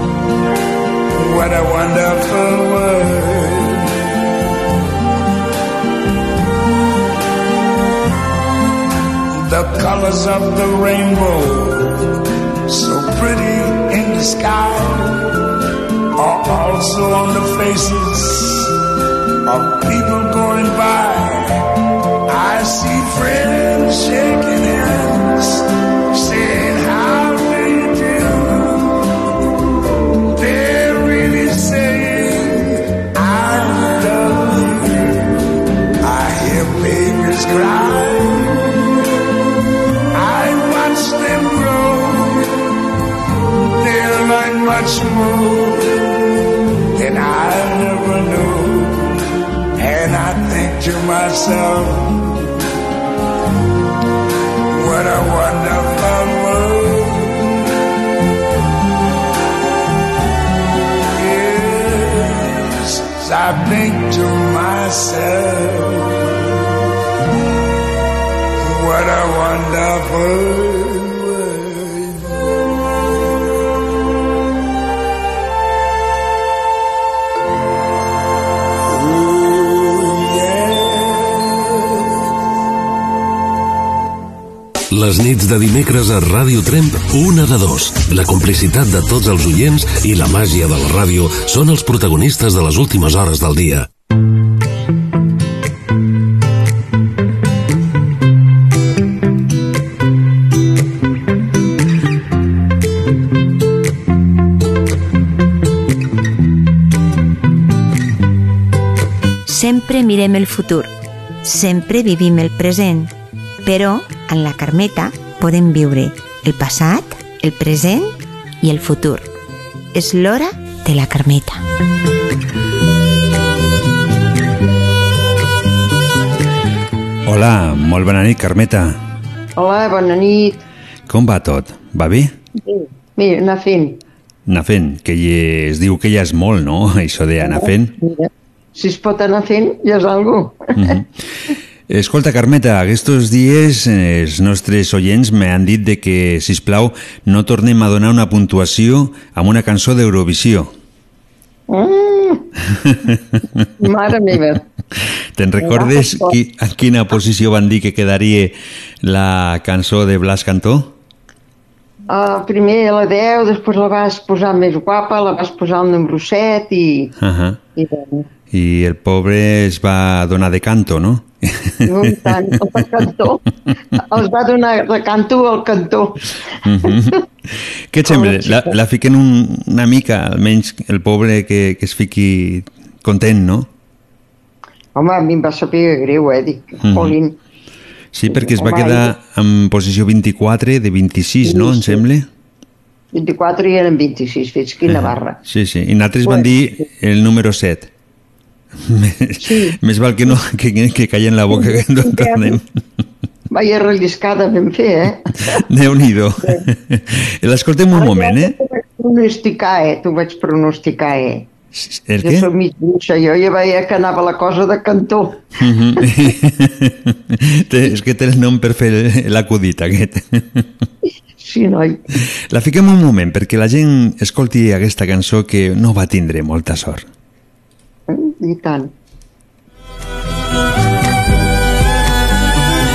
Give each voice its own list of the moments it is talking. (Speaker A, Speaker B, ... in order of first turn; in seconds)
Speaker A: 1.2-3.9, 9.3-12.0, 12.7-15.3, 16.2-18.7, 19.4-21.6, 22.3-28.9, 30.4-35.2, 36.0-38.6, 40.1-42.5, 43.8-45.9, 47.0-49.1, 49.8-52.2, 54.7-57.4, 61.1-66.3, 68.6-72.2, 78.9-81.8
Speaker B: 84.9-93.9
Speaker C: 109.5-110.9, 111.4-113.1, 113.6-119.3, 119.9-121.6
Speaker D: 127.2-129.0, 131.1-132.3, 134.5-137.9, 140.8-141.1, 141.9-150.7, 155.4-160.9, 167.2-167.6, 168.5-172.3, 176.6-183.7, 186.8-187.2, 188.1-192.2, 194.9-197.9, 198.8-202.6, 205.7-208.5, 211.8-212.5, 215.6-220.7, 222.5-227.1
Speaker E: 129.6-130.6, 132.6-134.0, 137.4-141.0, 151.7-152.4, 153.8-154.6, 155.6-156.3, 162.1-167.1, 167.8-168.3, 171.9-173.4, 174.0-176.2, 176.8-177.2, 178.1-178.7, 184.9-187.3, 188.3-189.1, 191.4-192.0, 193.1-195.3, 196.2-196.5, 199.4-199.8, 201.5-202.6, 203.5-205.6, 207.9-211.5, 212.2-215.5, 221.4-222.0, 228.1-228.9